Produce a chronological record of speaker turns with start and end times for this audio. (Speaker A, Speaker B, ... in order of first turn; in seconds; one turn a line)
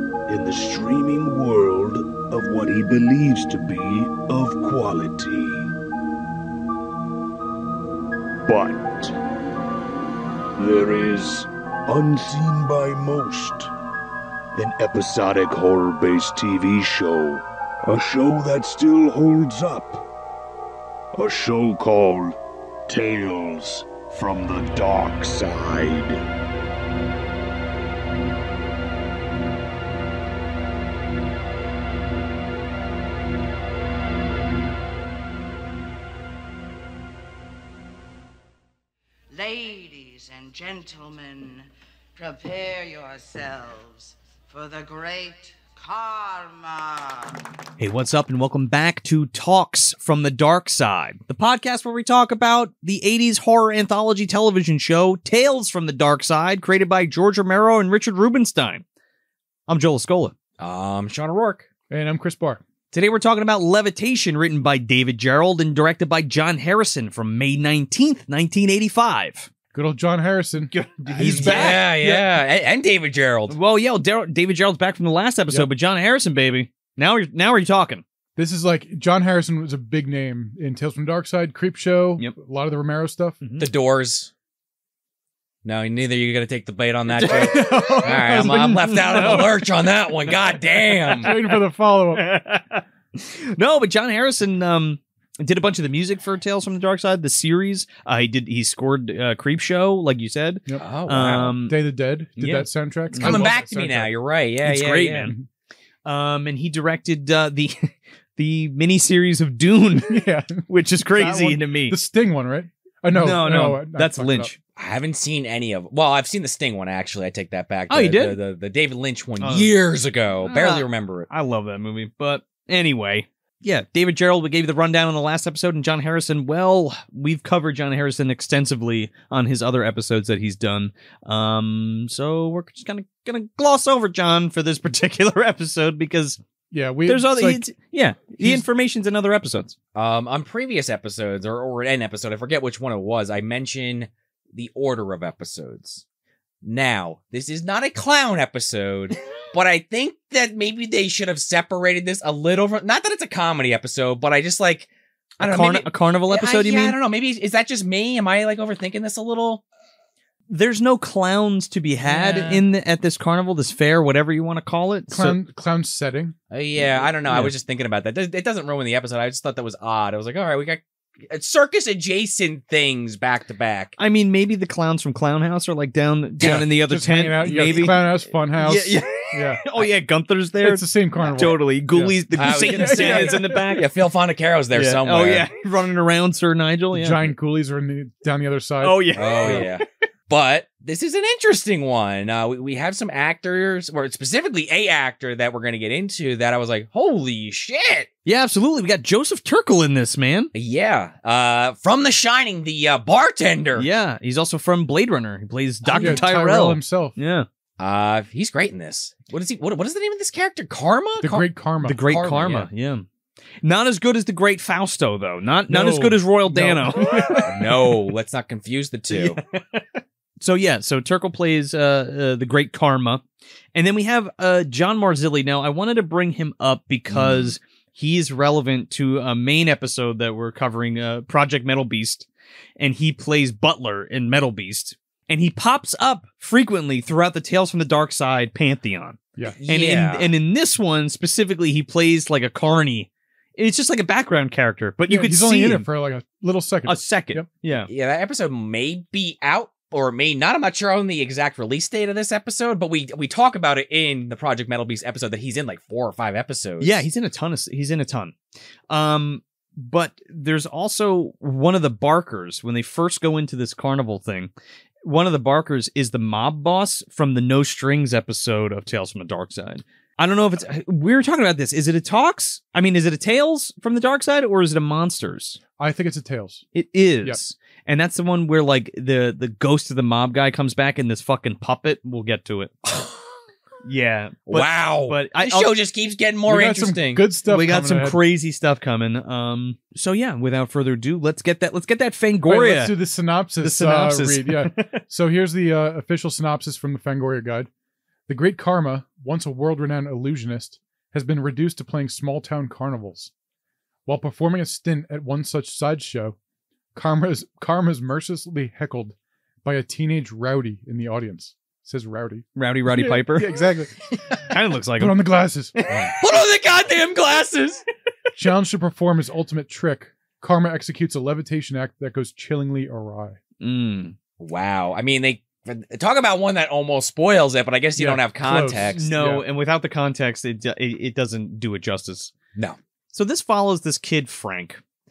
Speaker A: 0.3-5.7
Speaker A: 8.5-9.1
Speaker A: 10.6-13.7
Speaker A: 14.5-20.0
Speaker A: 21.1-22.4
Speaker A: 22.9-26.2
Speaker B: 39.3-47.4
Speaker C: 47.8-58.8
Speaker C: 59.7-60.3
Speaker D: 60.6-61.6
Speaker E: 61.9-62.6
Speaker C: 62.9-69.5
Speaker E: 69.7-72.3
Speaker C: 70.7-71.8
Speaker D: 71.1-73.5
Speaker C: 73.5-78.0
Speaker E: 78.3-83.4
Speaker C: 83.4-83.7
Speaker D: 83.6-84.3
Speaker D: 85.6-91.3
Speaker C: 87.1-89.7
Speaker E: 87.2-89.5
Speaker C: 91.0-91.6
Speaker E: 91.1-92.3
Speaker C: 92.1-101.8
Speaker E: 100.7-104.1
Speaker D: 100.8-101.5
Speaker C: 102.4-103.4
Speaker D: 103.2-105.3
Speaker C: 104.6-105.3
Speaker C: 106.0-112.0
Speaker E: 110.0-114.5
Speaker C: 113.1-114.5
Speaker D: 114.8-121.3
Speaker C: 117.9-118.4
Speaker C: 119.4-119.7
Speaker C: 120.4-136.4
Speaker E: 136.7-137.6
Speaker C: 137.1-139.7
Speaker E: 138.4-138.6
Speaker D: 139.9-146.0
Speaker D: 146.6-159.6
Speaker C: 155.4-157.0
Speaker C: 160.5-165.4
Speaker D: 162.0-162.6
Speaker E: 165.1-166.3
Speaker D: 166.5-173.9
Speaker C: 166.9-167.5
Speaker C: 174.0-183.8
Speaker E: 176.4-179.6
Speaker D: 177.5-177.8
Speaker E: 180.6-183.5
Speaker D: 182.3-185.5
Speaker C: 184.7-187.3
Speaker E: 186.9-189.7
Speaker C: 188.8-189.7
Speaker D: 189.2-198.1
Speaker C: 198.2-200.5
Speaker D: 200.5-203.9
Speaker C: 203.8-207.5
Speaker D: 205.8-206.3
Speaker E: 206.0-207.2
Speaker D: 207.8-211.4
Speaker E: 211.2-212.0
Speaker C: 211.8-213.1
Speaker D: 212.0-212.7
Speaker C: 213.6-217.5
Speaker E: 215.7-217.7
Speaker D: 217.4-219.4
Speaker C: 219.1-223.2
Speaker C: 223.7-232.2
Speaker D: 227.1-227.5
Speaker C: 232.8-245.9
Speaker D: 239.4-240.3
Speaker E: 245.1-247.4
Speaker C: 246.8-247.9
Speaker D: 247.9-257.1
Speaker C: 256.8-258.3
Speaker C: 258.9-264.5
Speaker C: 265.0-275.6
Speaker E: 275.8-276.6
Speaker C: 276.7-282.7
Speaker D: 282.8-283.2
Speaker C: 283.8-285.7
Speaker D: 284.5-287.2
Speaker E: 286.4-288.2
Speaker C: 287.5-292.9
Speaker E: 292.4-297.7
Speaker C: 293.6-295.0
Speaker E: 298.3-303.3
Speaker E: 304.1-306.4
Speaker E: 306.9-314.0
Speaker C: 312.6-313.6
Speaker C: 314.4-316.1
Speaker E: 315.0-315.7
Speaker D: 315.9-317.8
Speaker E: 318.4-323.4
Speaker C: 323.6-324.1
Speaker D: 324.4-329.0
Speaker E: 328.0-329.4
Speaker C: 328.9-332.3
Speaker C: 333.1-334.8